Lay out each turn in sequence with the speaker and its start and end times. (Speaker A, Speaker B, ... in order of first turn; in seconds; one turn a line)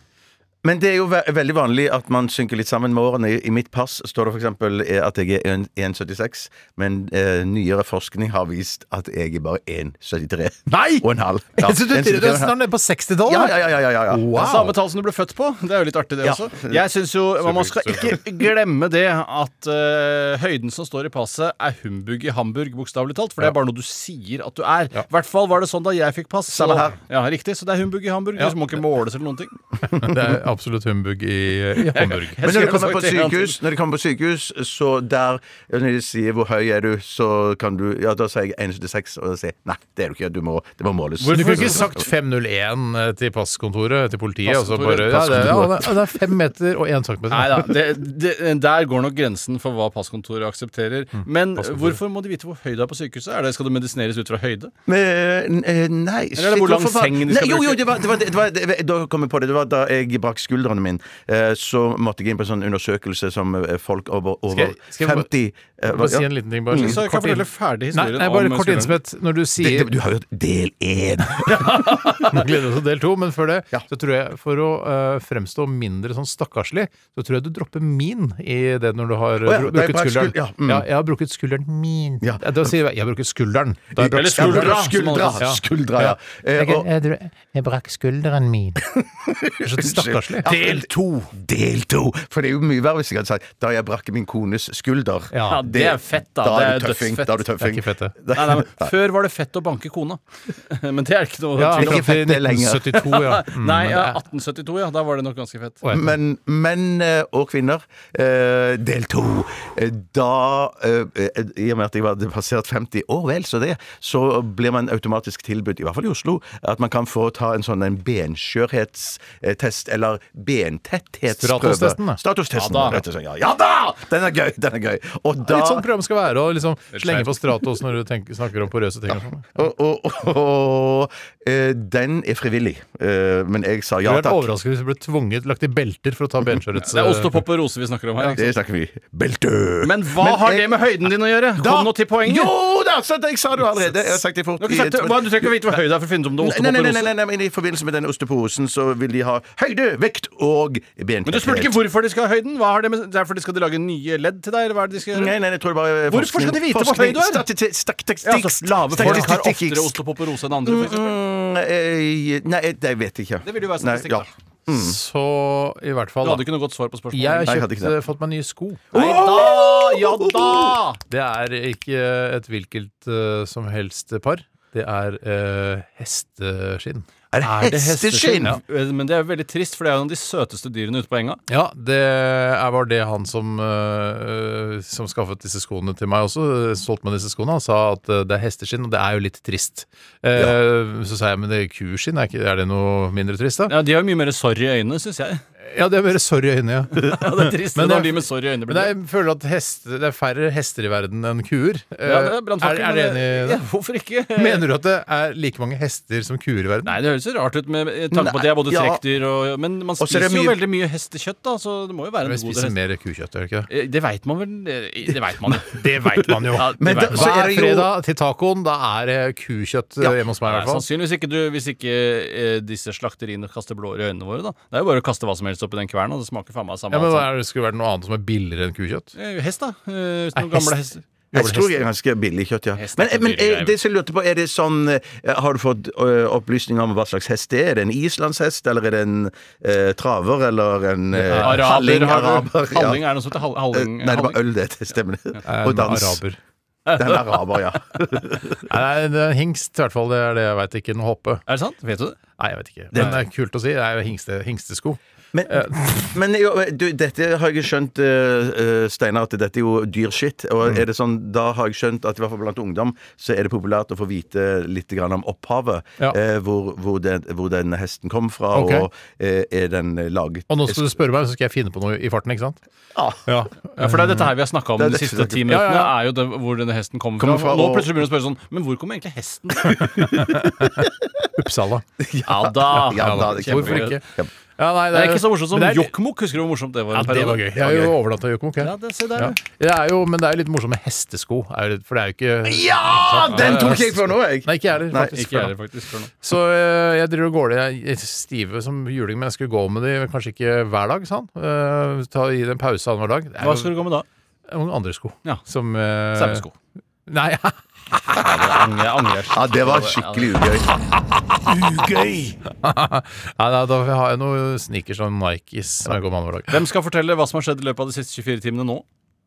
Speaker A: 0.6-12.6
Speaker B: 10.7-11.1
Speaker B: 11.6-14.8
Speaker A: 13.3-14.2
Speaker C: 14.3-29.5
Speaker A: 16.2-16.8
Speaker B: 17.4-18.2
Speaker A: 26.5-27.0
Speaker B: 28.4-28.8
Speaker B: 29.9-32.4
Speaker C: 31.8-33.6
Speaker A: 32.4-42.0
Speaker C: 41.2-41.9
Speaker B: 41.3-47.7
Speaker C: 44.5-45.9
Speaker C: 47.3-54.7
Speaker B: 51.6-52.0
Speaker A: 54.9-67.0
Speaker C: 56.4-57.8
Speaker B: 64.5-65.3
Speaker B: 65.9-69.9
Speaker C: 66.7-69.0
Speaker A: 69.6-71.7
Speaker C: 71.5-72.4
Speaker B: 72.2-88.8
Speaker A: 79.4-80.9
Speaker A: 84.0-86.9
Speaker C: 84.0-85.5
Speaker A: 89.0-98.9
Speaker B: 89.6-90.5
Speaker C: 90.5-91.3
Speaker B: 95.3-95.6
Speaker C: 95.5-97.4
Speaker B: 97.6-98.2
Speaker C: 98.3-102.1
Speaker B: 101.6-104.2
Speaker A: 101.8-103.0
Speaker C: 103.0-105.9
Speaker B: 105.8-106.1
Speaker A: 105.9-125.9
Speaker B: 121.3-122.2
Speaker C: 122.6-123.0
Speaker B: 125.4-129.5
Speaker C: 126.9-127.4
Speaker A: 129.1-134.5
Speaker B: 134.0-137.4
Speaker C: 136.8-138.5
Speaker A: 138.4-140.9
Speaker C: 139.8-142.5
Speaker A: 141.6-145.8
Speaker C: 144.6-147.1
Speaker A: 146.4-151.8
Speaker C: 151.3-155.3
Speaker A: 155.1-160.0
Speaker C: 156.1-157.4
Speaker C: 158.2-161.2
Speaker B: 159.0-159.3
Speaker A: 160.7-165.0
Speaker C: 163.4-164.3
Speaker B: 164.7-166.5
Speaker C: 166.2-167.6
Speaker B: 167.1-168.9
Speaker A: 167.5-168.0
Speaker A: 168.9-170.8
Speaker C: 168.9-171.0
Speaker B: 171.1-177.1
Speaker A: 177.3-178.6
Speaker C: 177.4-181.4
Speaker B: 181.5-193.7
Speaker C: 193.7-195.4
Speaker B: 195.7-203.6
Speaker C: 196.9-198.9
Speaker C: 202.0-204.7
Speaker B: 204.4-207.0
Speaker C: 206.8-212.8
Speaker A: 208.1-209.0
Speaker A: 210.0-210.6
Speaker B: 212.2-213.7
Speaker C: 213.7-215.8
Speaker B: 215.6-220.9
Speaker C: 216.5-217.3
Speaker A: 216.5-217.9
Speaker C: 220.0-227.3
Speaker B: 226.9-229.1
Speaker C: 229.2-231.0
Speaker B: 230.4-230.7
Speaker A: 231.3-243.1
Speaker B: 231.4-231.7
Speaker C: 232.8-233.8
Speaker B: 241.1-241.7
Speaker C: 241.3-244.4
Speaker A: 243.7-246.2
Speaker B: 245.4-246.4
Speaker C: 246.9-247.6
Speaker A: 247.0-248.7
Speaker B: 248.7-251.4
Speaker C: 251.5-252.2
Speaker B: 252.4-256.1
Speaker A: 252.9-253.2
Speaker A: 255.3-270.9
Speaker B: 268.5-268.9
Speaker B: 270.5-272.6
Speaker A: 272.9-273.3
Speaker B: 273.3-274.3
Speaker C: 273.8-280.3
Speaker A: 274.8-275.6
Speaker B: 275.5-276.0
Speaker A: 277.2-278.0
Speaker A: 279.7-280.9
Speaker B: 280.2-281.9
Speaker A: 282.0-284.3
Speaker C: 282.3-284.0
Speaker B: 282.9-284.0
Speaker B: 284.6-285.9
Speaker C: 284.9-288.0
Speaker B: 286.9-295.5
Speaker C: 288.6-289.4
Speaker A: 292.4-295.2
Speaker C: 293.3-293.8
Speaker C: 295.1-296.1
Speaker B: 296.2-303.8
Speaker C: 303.4-304.1
Speaker B: 304.5-306.4
Speaker C: 306.1-306.6
Speaker B: 307.1-308.2
Speaker C: 308.2-310.4
Speaker A: 309.3-310.7
Speaker C: 311.8-312.1
Speaker B: 312.6-316.6
Speaker C: 316.5-318.9